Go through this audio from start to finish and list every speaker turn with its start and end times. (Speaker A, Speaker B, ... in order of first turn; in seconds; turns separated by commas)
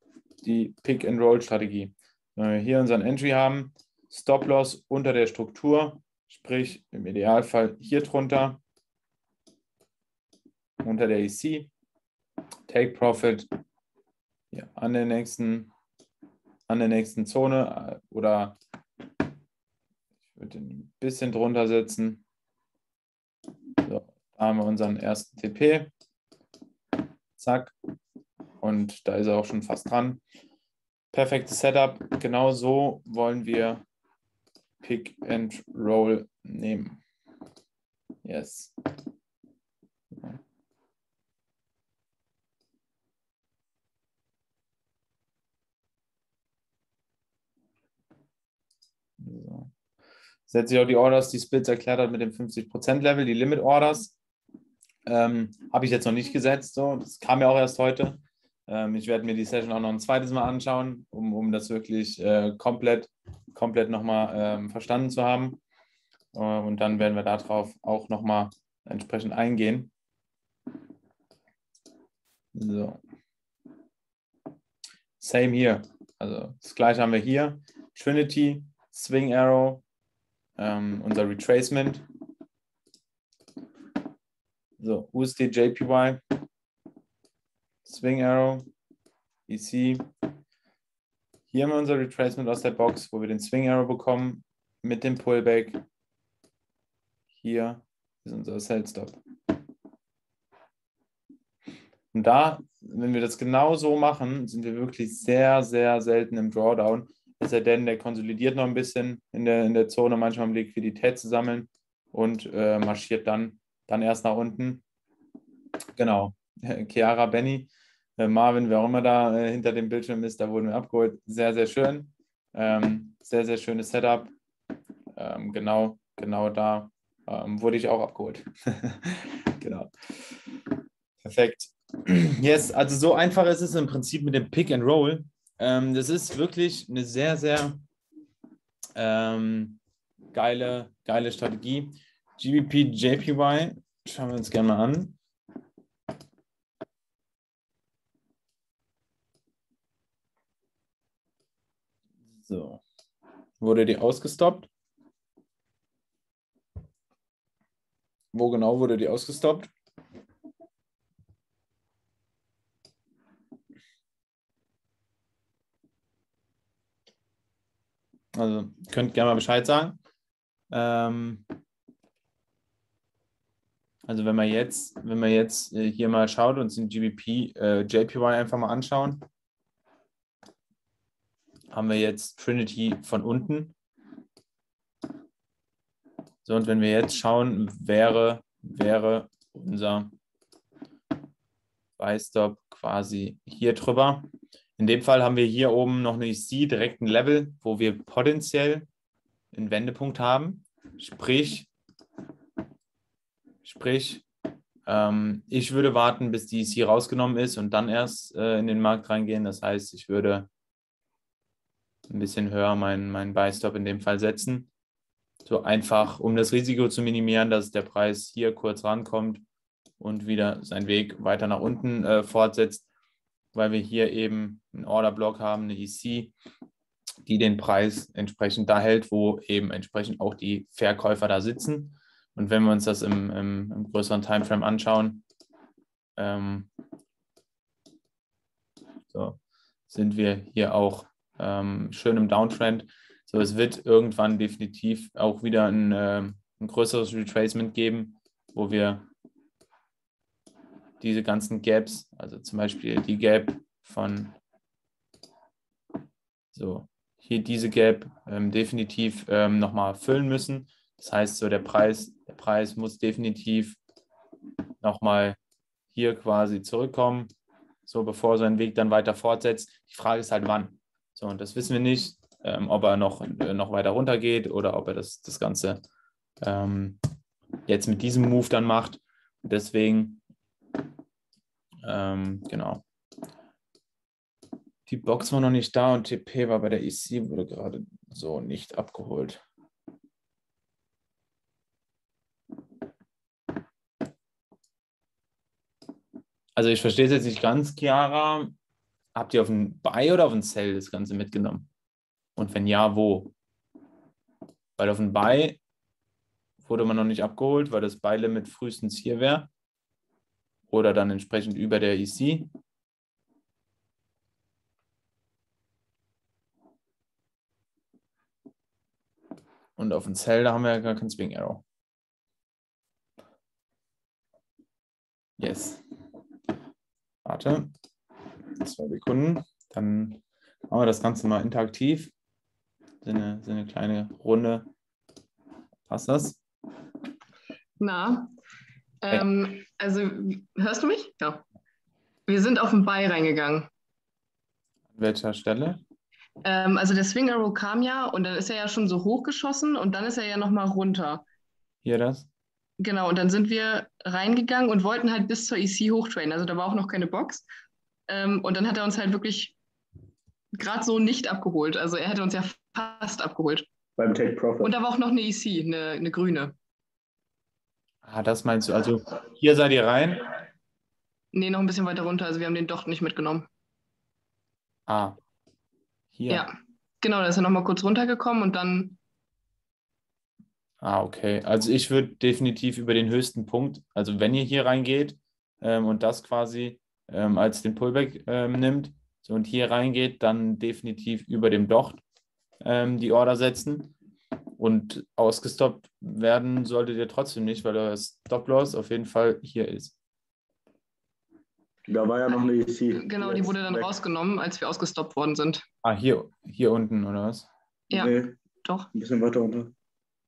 Speaker A: 0.4-8.6, Speaker A: 10.8-11.7, Speaker A: 12.7-13.5, Speaker A: 14.5-15.7, Speaker A: 16.7-18.6, Speaker A: 20.3-22.2, Speaker A: 23.8-25.9, Speaker A: 27.4-27.7, Speaker A: 28.6-30.2, Speaker A: 31.1-33.8, Speaker A: 34.8-37.0, Speaker A: 38.2-38.7, Speaker A: 49.2-49.7, Speaker A: 50.5-54.2, Speaker A: 55.1-65.6, Speaker A: 66.3-69.9, Speaker A: 72.5-73.0, Speaker A: 75.2-79.8, Speaker A: 80.6-82.0, Speaker A: 84.8-86.2, Speaker A: 87.8-88.7, Speaker A: 89.5-90.0, Speaker A: 91.5-95.8, Speaker A: 97.3-99.2, Speaker A: 102.1-114.8, Speaker A: 116.0-124.3, Speaker A: 125.2-130.3, Speaker A: 131.2-137.8, Speaker A: 139.0-139.8, Speaker A: 140.3-145.2, Speaker A: 152.4-152.8, Speaker A: 153.6-154.7, Speaker A: 158.3-159.7, Speaker A: 168.3-170.0, Speaker A: 170.7-171.4, Speaker A: 174.1-179.2, Speaker A: 181.7-183.8, Speaker A: 186.4-190.1, Speaker A: 192.0-198.9, Speaker A: 199.5-201.7, Speaker A: 203.6-204.2, Speaker A: 204.9-210.5, Speaker A: 212.1-214.7, Speaker A: 215.4-219.4, Speaker A: 220.0-222.8, Speaker A: 223.5-226.3, Speaker A: 227.3-235.2, Speaker A: 236.2-236.7, Speaker A: 239.1-249.1, Speaker A: 251.0-254.4, Speaker A: 256.5-263.8, Speaker A: 264.8-265.4, Speaker A: 265.9-267.3, Speaker A: 267.9-275.8, Speaker A: 276.4-277.0, Speaker A: 277.7-280.2, Speaker A: 281.8-282.8, Speaker A: 284.9-289.4, Speaker A: 296.6-298.6, Speaker A: 299.1-301.7, Speaker A: 302.4-303.3, Speaker A: 304.8-305.6, Speaker A: 306.6-309.5, Speaker A: 310.7-312.5, Speaker A: 319.8-321.6, Speaker A: 325.4-325.8, Speaker A: 327.2-327.7, Speaker A: 328.6-332.1, Speaker A: 333.0-334.7, Speaker A: 335.9-336.4, Speaker B: 337.8-338.3, Speaker B: 339.0-341.4, Speaker B: 342.3-343.7, Speaker A: 344.9-345.8, Speaker B: 346.4-351.2, Speaker A: 351.8-352.3, Speaker B: 352.8-357.5, Speaker B: 358.1-359.6, Speaker B: 360.5-363.7, Speaker C: 364.0-364.7, Speaker B: 364.6-366.6, Speaker A: 368.0-370.2, Speaker B: 371.3-373.5, Speaker A: 374.9-375.2, Speaker A: 376.1-376.5, Speaker B: 377.0-379.0, Speaker A: 380.8-392.0, Speaker A: 392.6-393.9, Speaker A: 394.6-400.0, Speaker C: 401.9-403.9, Speaker B: 402.9-405.6, Speaker A: 405.8-407.5, Speaker C: 407.9-408.4, Speaker B: 408.6-408.9, Speaker C: 408.9-409.7